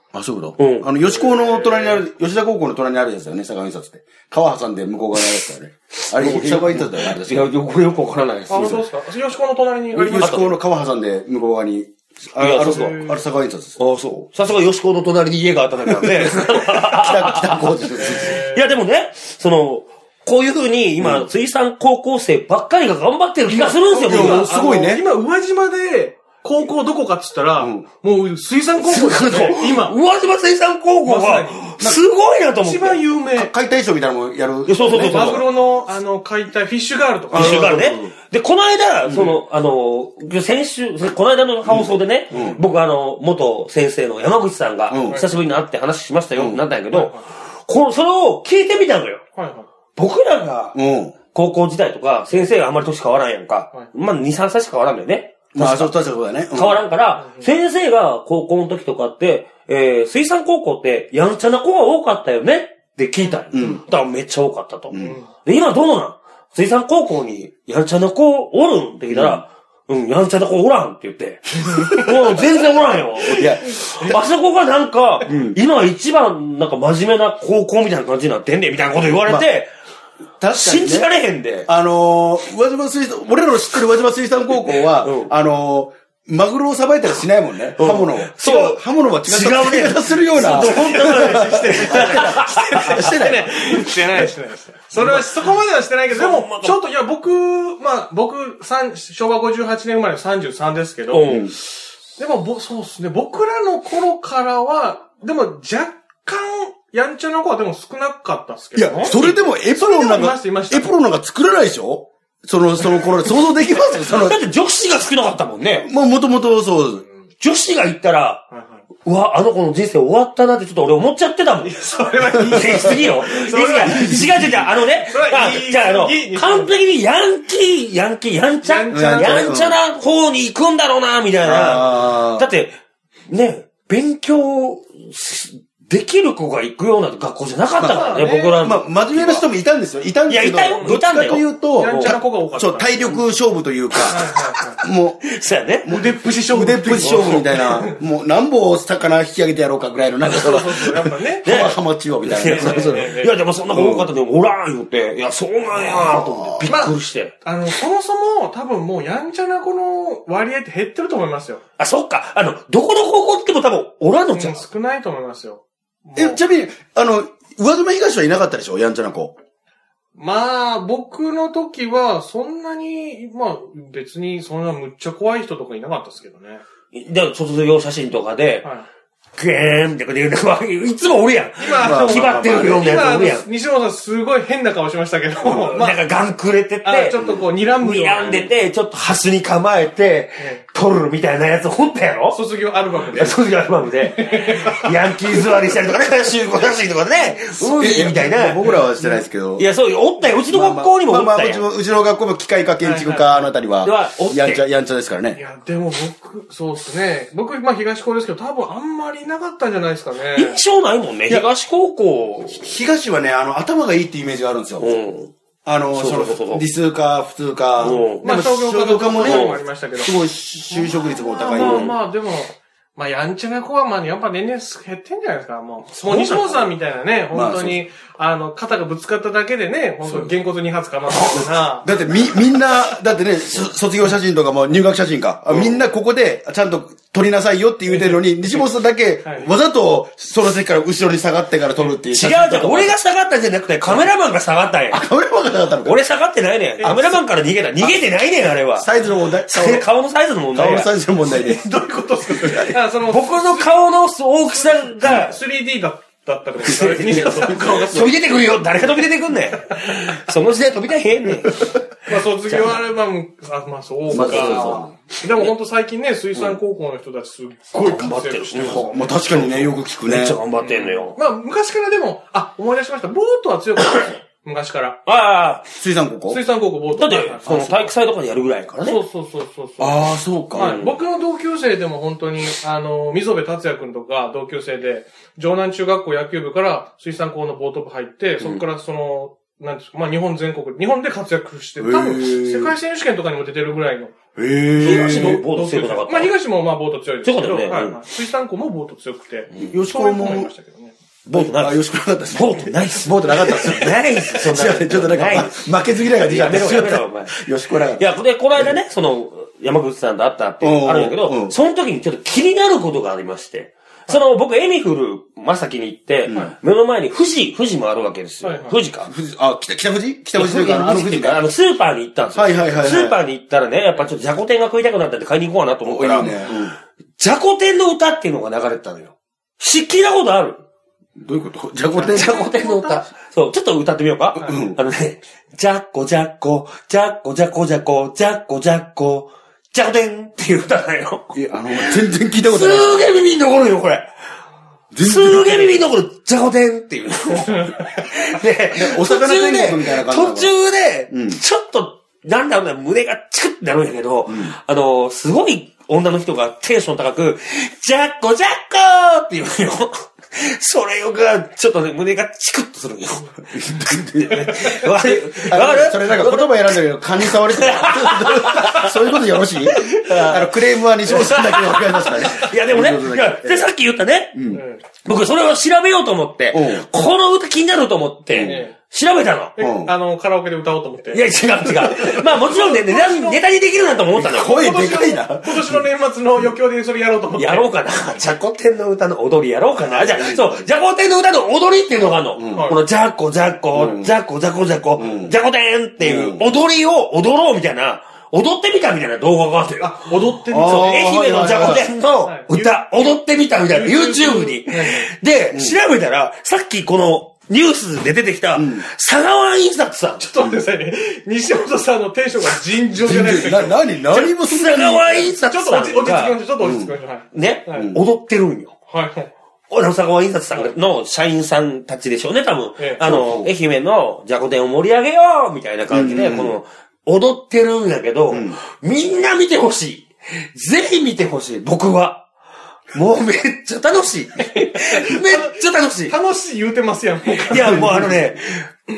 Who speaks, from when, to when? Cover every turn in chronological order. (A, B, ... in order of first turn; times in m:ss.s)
0:00.1-0:07.4 A
0:00.6-0:00.9 B
0:01.1-0:02.0 C
0:06.0-0:08.8 B
0:08.5-0:10.4 C
0:09.9-0:13.8 A
0:10.2-0:10.6 B
0:12.4-0:13.0 B
0:12.5-0:13.2 C
0:13.8-0:24.5 B
0:15.9-0:18.4 A
0:18.0-0:18.7 C
0:21.0-0:21.3 A
0:23.5-0:30.0 C
0:23.9-0:25.0 A
0:27.6-0:27.9 A
0:28.8-0:33.0 B
0:31.0-0:31.7 C
0:32.6-0:33.5 C
0:33.3-0:35.4 A
0:34.7-0:35.5 B
0:34.8-0:37.8 C
0:37.3-0:38.2 A
0:37.3-0:49.2 B
0:39.1-0:39.4 A
0:41.6-0:42.6 A
0:42.3-0:42.6 C
0:44.9-0:45.2 A
0:46.4-0:46.6 A
0:46.9-0:47.2 C
0:49.4-0:49.7 C
0:50.0-0:50.8 B
0:50.8-0:51.2 A
0:51.3-0:56.0 B
0:55.5-0:56.8 A
0:56.5-1:19.7 B
0:57.2-0:57.5 C
1:03.5-1:03.8 A
1:04.9-1:05.2 A
1:05.0-1:05.3 C
1:09.1-1:09.4 A
1:13.3-1:14.2 A
1:15.2-1:15.6 A
1:20.4-1:21.1 A
1:20.5-1:21.7 B
1:21.7-1:34.3 A
1:25.0-1:25.3 B
1:27.8-1:33.0 B
1:30.5-1:41.4 C
1:36.1-1:36.8 B
1:41.1-1:41.6 B
1:41.3-1:41.6 A
1:42.2-1:50.9 C
1:48.8-1:54.4 A
1:54.0-1:55.9 B
1:55.8-1:57.0 A
1:57.4-1:58.4 B
1:58.5-1:58.8 C
1:59.0-2:01.8 B
2:01.6-2:04.4 C
2:02.5-2:12.8 B
2:02.6-2:03.0 A
2:03.8-2:04.7 A
2:05.0-2:06.8 C
2:08.6-2:09.5 C
2:08.9-2:09.8 A
2:11.4-2:12.5 A
2:13.3-2:19.5 B
2:17.8-2:25.3 A
2:17.8-2:18.6 C
2:20.3-2:22.2 B
2:21.8-2:23.2 C
2:23.9-2:24.2 B
2:24.1-2:24.8 C
2:25.2-2:25.9 B
2:25.8-2:33.2 A
2:25.9-2:28.0 C
2:27.0-2:27.6 B
2:30.3-2:31.6 C
2:31.4-2:37.4 B
2:32.4-2:33.4 C
2:33.7-2:34.1 A
2:35.8-2:36.7 A
2:36.7-2:41.6 C
2:41.8-2:44.6 B
2:44.3-2:46.4 C
2:46.2-2:49.3 A
2:50.2-2:56.6 C
2:56.9-2:58.7 B
2:59.4-3:03.5 B
3:01.6-3:06.0 C
3:01.8-3:03.2 A
3:05.4-3:07.2 B
3:06.8-3:08.5 C
3:07.2-3:07.5 A
3:07.8-3:12.4 B
3:12.3-3:13.4 C
3:13.1-3:18.7 B
3:14.0-3:15.4 C
3:17.6-3:19.7 A
3:18.6-3:19.2 C
3:19.6-3:21.6 B
3:20.5-3:25.4 A
3:22.8-3:23.5 C
3:23.8-3:24.6 B
3:25.4-3:30.6 C
3:30.4-3:32.7 B
3:32.5-3:34.9 A
3:34.8-3:35.3 B
3:35.6-3:42.0 A
3:35.9-3:36.6 B
3:37.8-3:38.3 B
3:38.2-3:40.2 C
3:39.2-3:39.6 B
3:40.7-3:52.0 C
3:41.6-3:42.0 B
3:46.0-3:46.7 B
3:47.3-3:47.8 A
3:50.0-3:50.3 A
3:51.2-4:02.9 A
3:57.9-3:58.6 C
3:59.2-3:59.5 C
4:02.1-4:05.0 B
4:04.9-4:06.0 A
4:05.8-4:08.9 B
4:06.8-4:07.1 C
4:08.7-4:09.9 A
4:09.4-4:10.9 B
4:10.5-4:11.6 A
4:11.2-4:13.7 C
4:12.3-4:12.8 A
4:13.0-4:15.4 B
4:14.6-4:18.2 C
4:16.6-4:21.8 B
4:16.9-4:18.1 A
4:22.1-4:29.2 C
4:22.5-4:22.8 B
4:24.1-4:24.9 A
4:24.1-4:24.8 B
4:27.7-4:31.2 B
4:28.6-4:30.4 A
4:30.6-4:35.0 C
4:35.1-4:35.6 B
4:35.8-4:36.4 A
4:36.3-4:37.9 C
4:37.0-4:39.0 B
4:38.8-4:54.2 C
4:39.8-4:40.8 A
4:40.6-4:41.0 B
4:51.8-4:52.8 A
4:54.4-4:55.4 A
4:54.8-5:00.9 C
4:54.8-4:56.3 B
4:57.2-4:58.0 B
4:59.6-5:00.5 A
5:01.3-5:01.8 B
5:01.3-5:08.0 A
5:02.3-5:07.4 B
5:08.0-5:19.1 B
5:10.6-5:11.6 A
5:16.3-5:16.5 A
5:18.4-5:18.8 C
5:19.1-5:21.4 A
5:20.3-5:26.4 B
5:22.4-5:23.2 A
5:25.9-5:26.8 A
5:27.2-5:30.6 B
5:31.2-5:32.5 A
5:32.0-5:33.0 C
5:32.1-5:44.1 B
5:34.4-5:34.8 A
5:41.3-5:43.1 A
5:44.9-5:45.8 A
5:45.0-6:03.4 B
5:48.7-5:50.5 A
5:51.1-5:51.4 A
5:54.3-5:54.6 A
6:03.5-6:13.7 A
6:04.1-6:09.0 B
6:09.7-6:14.4 B
6:14.3-6:14.6 A
6:14.5-6:14.8 C
6:15.0-6:19.6 B
6:16.5-6:16.9 A
6:18.3-6:18.6 A
6:18.4-6:18.8 C
6:19.6-6:21.3 C
6:19.6-6:19.9 A
6:21.1-6:24.7 B
6:21.8-6:23.4 C
6:24.2-6:25.8 A
6:24.3-6:27.7 C
6:27.4-6:50.3 B
6:29.8-6:30.6 A
6:32.4-6:32.7 A
6:32.5-6:32.8 C
6:33.7-6:34.1 A
6:35.0-6:35.4 A
6:36.0-6:36.4 A
6:39.8-6:43.0 C
6:40.5-6:41.9 A
6:43.6-6:45.1 C
6:45.5-6:45.8 A
6:48.6-6:48.9 A
6:50.2-6:53.8 C
6:53.0-6:55.3 A
6:54.1-6:56.4 B
6:55.4-6:57.9 C
6:56.6-6:56.9 A
6:57.3-6:58.8 B
6:57.8-6:58.0 A
6:58.9-6:59.3 C
6:59.7-7:12.3 B
7:02.8-7:03.0 C
7:03.0-7:03.5 A
7:05.9-7:06.6 A
7:08.3-7:08.6 A
7:12.9-7:16.2 B
7:14.9-7:18.2 C
7:17.3-7:18.7 B